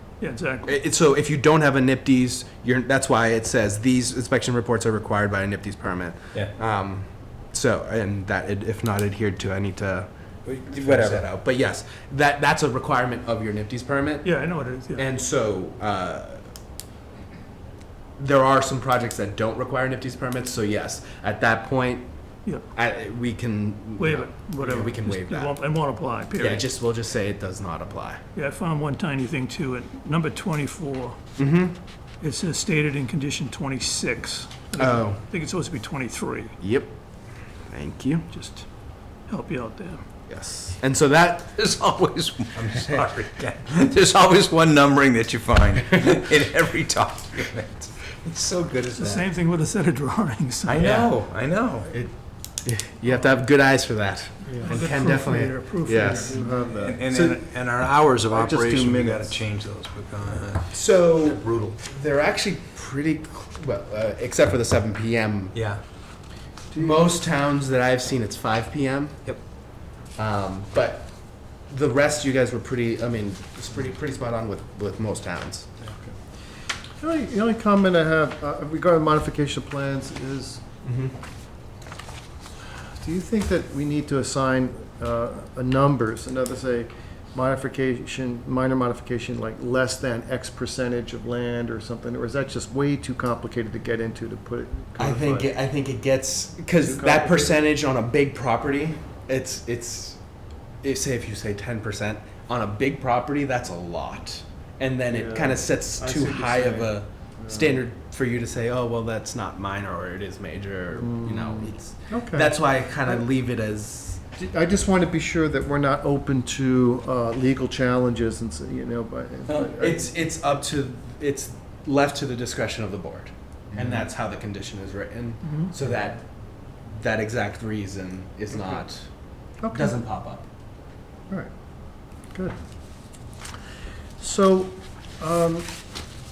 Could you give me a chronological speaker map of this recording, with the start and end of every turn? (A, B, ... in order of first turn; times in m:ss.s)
0:00.2-0:00.7 A
0:00.6-0:14.3 B
0:10.4-0:11.3 C
0:14.2-0:15.1 A
0:15.0-0:16.4 B
0:18.2-0:22.1 B
0:22.7-0:25.5 B
0:24.0-0:26.7 A
0:26.4-0:28.2 B
0:28.3-0:31.2 A
0:31.4-0:31.8 B
0:32.2-0:36.5 A
0:34.8-0:35.2 B
0:36.6-0:36.9 B
0:37.7-0:38.2 B
0:38.3-0:38.7 A
0:39.3-0:40.0 A
0:40.3-0:41.5 B
0:41.6-0:49.3 C
0:42.5-0:43.1 B
0:48.9-0:51.1 A
0:50.6-0:51.9 C
0:50.8-0:51.0 B
0:52.6-0:57.4 B
0:54.5-0:54.8 D
0:54.6-0:56.6 A
0:55.9-0:57.0 D
0:56.6-1:01.7 C
0:58.3-0:59.4 D
1:00.7-1:05.6 B
1:05.5-1:05.8 C
1:06.7-1:07.1 D
1:06.8-1:15.7 B
1:15.8-1:16.1 D
1:17.0-1:20.6 D
1:20.8-1:21.1 B
1:23.0-1:35.5 D
1:35.0-1:40.2 B
1:36.8-1:37.6 D
1:40.8-1:54.2 B
1:45.1-1:47.8 D
1:50.9-1:53.2 D
1:54.4-2:00.1 D
1:59.6-2:06.2 B
2:05.4-2:05.7 A
2:06.8-2:10.4 B
2:09.6-2:10.0 D
2:12.3-2:12.6 D
2:14.2-2:15.7 D